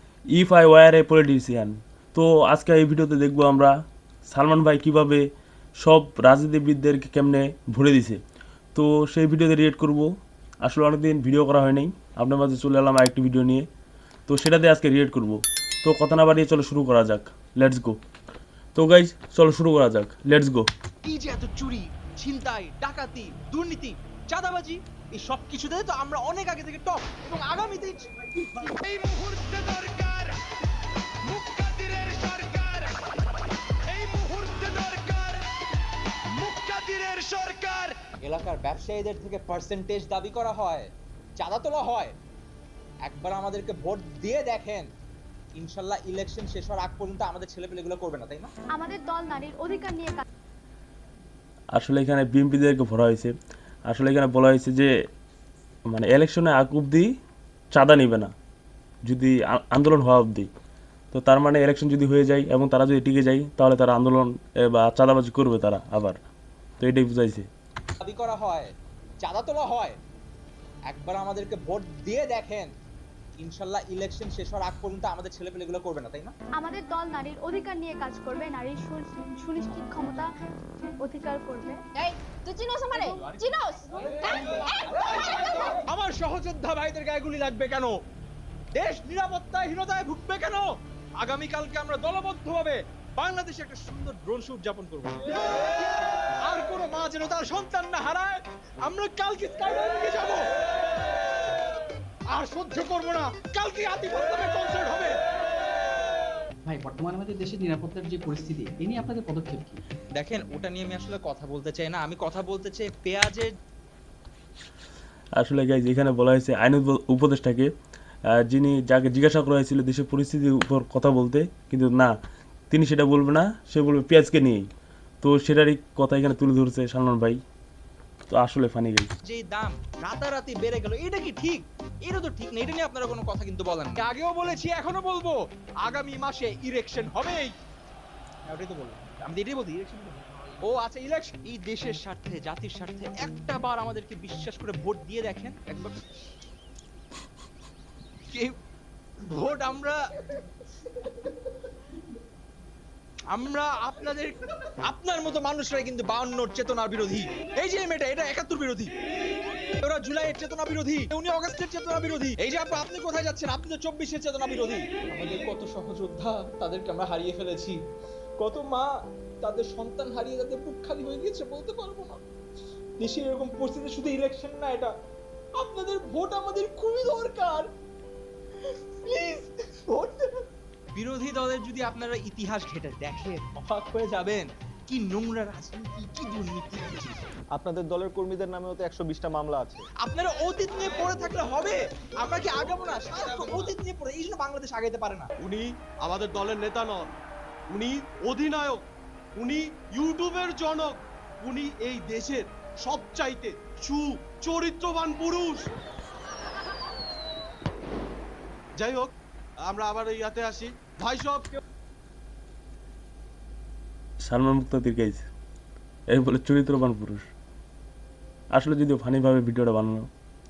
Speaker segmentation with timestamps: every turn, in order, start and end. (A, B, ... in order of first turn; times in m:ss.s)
0:00.3-0:03.7 A
0:04.3-0:05.2 A
0:05.8-0:08.2 A
0:08.7-0:10.1 A
0:10.6-0:13.6 A
0:14.3-0:18.0 A
0:18.8-0:20.7 A
0:21.0-0:28.8 B
0:28.8-0:30.4 C
0:31.2-0:33.0 C
0:33.8-0:35.5 C
0:36.3-0:38.0 C
0:38.2-0:42.1 B
0:43.0-0:44.8 B
0:45.6-0:48.5 B
0:48.7-0:50.2 D
0:51.7-0:53.3 A
0:53.9-0:54.9 A
0:55.9-0:57.1 A
0:57.7-0:58.3 A
0:59.0-1:00.5 A
1:01.1-1:06.2 A
1:06.8-1:07.5 A
1:08.0-1:08.7 B
1:09.2-1:09.9 B
1:10.9-1:12.7 B
1:13.4-1:16.3 B
1:16.6-1:20.3 D
1:21.0-1:21.8 D
1:21.9-1:25.8 E
1:24.0-1:27.9 B
1:28.7-1:40.5 B
1:42.3-1:45.2 B
1:46.6-1:49.8 F
1:50.2-1:53.5 B
1:55.4-1:57.7 A
1:58.4-2:02.1 A
2:02.7-2:04.6 A
2:05.2-2:07.4 A
2:08.3-2:09.1 A
2:09.2-2:17.5 B
2:18.5-2:26.1 B
2:29.2-2:30.0 B
2:33.3-2:38.9 B
2:39.8-2:47.8 B
2:48.4-2:48.9 B
2:49.4-2:52.2 B
2:53.0-2:54.9 B
2:55.6-2:57.7 B
2:59.0-3:00.4 B
3:00.9-3:07.2 B
3:07.5-3:09.8 G
3:10.0-3:15.3 B
3:15.4-3:17.1 H
3:17.7-3:18.8 H
3:19.4-3:25.7 H
3:28.8-3:29.1 H
3:29.6-3:31.5 H
3:34.2-3:35.2 A
3:36.1-3:37.2 A
3:38.5-3:40.1 A